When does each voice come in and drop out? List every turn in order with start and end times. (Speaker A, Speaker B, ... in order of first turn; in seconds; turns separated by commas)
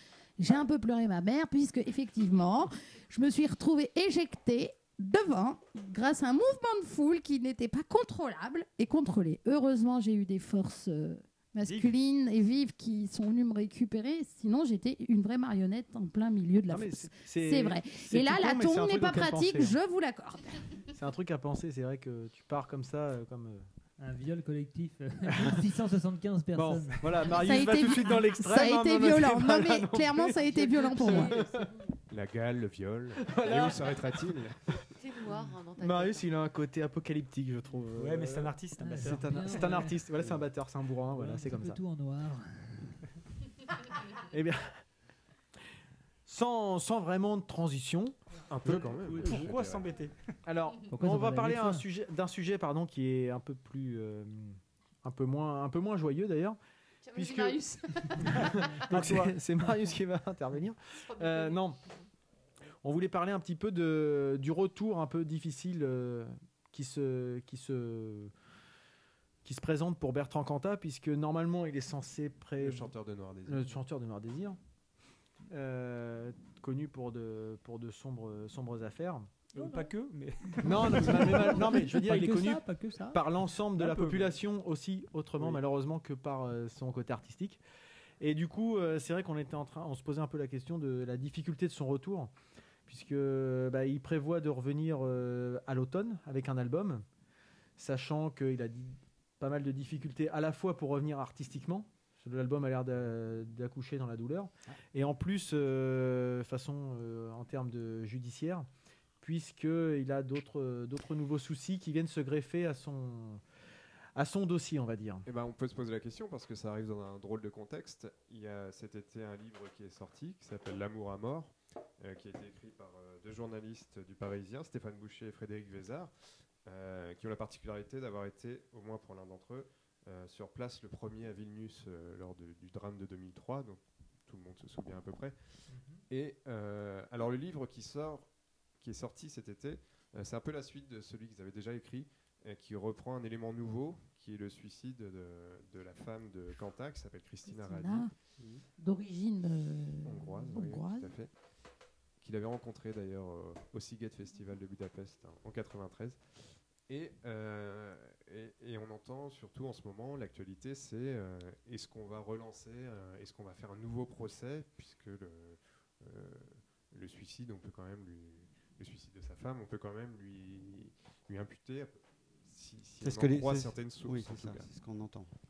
Speaker A: 0.4-20.6, Speaker B: 11.6-11.9, Speaker C: 16.7-19.8, Speaker C: 20.9-23.7, Speaker D: 24.0-27.5, Speaker C: 25.3-25.6, Speaker C: 26.6-31.8, Speaker A: 27.3-31.3, Speaker E: 31.1-31.7, Speaker F: 32.1-34.8, Speaker C: 33.2-34.4, Speaker E: 35.0-36.3, Speaker C: 35.8-41.8, Speaker B: 38.0-39.8, Speaker D: 38.8-40.1, Speaker D: 41.1-43.0, Speaker C: 44.1-44.8, Speaker C: 46.3-49.5, Speaker F: 48.5-49.9, Speaker B: 49.1-50.2, Speaker C: 50.4-56.6, Speaker D: 50.9-51.9, Speaker E: 57.0-58.5, Speaker C: 57.1-61.8, Speaker B: 58.9-59.4, Speaker E: 61.0-61.7, Speaker C: 62.8-68.3, Speaker C: 69.5-72.9, Speaker F: 72.6-73.8, Speaker C: 73.5-74.6, Speaker C: 75.5-79.3, Speaker B: 79.5-81.7, Speaker D: 79.6-79.9, Speaker D: 80.6-83.2, Speaker C: 80.6-87.6, Speaker B: 83.8-84.4, Speaker C: 88.2-92.3, Speaker C: 92.9-97.0, Speaker C: 97.8-108.7, Speaker C: 109.2-113.4, Speaker C: 114.2-115.3, Speaker F: 115.2-126.1, Speaker F: 126.7-135.4, Speaker F: 136.1-148.1, Speaker A: 147.5-148.1, Speaker G: 148.4-148.6, Speaker A: 148.8-151.1, Speaker F: 150.1-151.3, Speaker F: 152.2-174.7, Speaker G: 173.0-175.3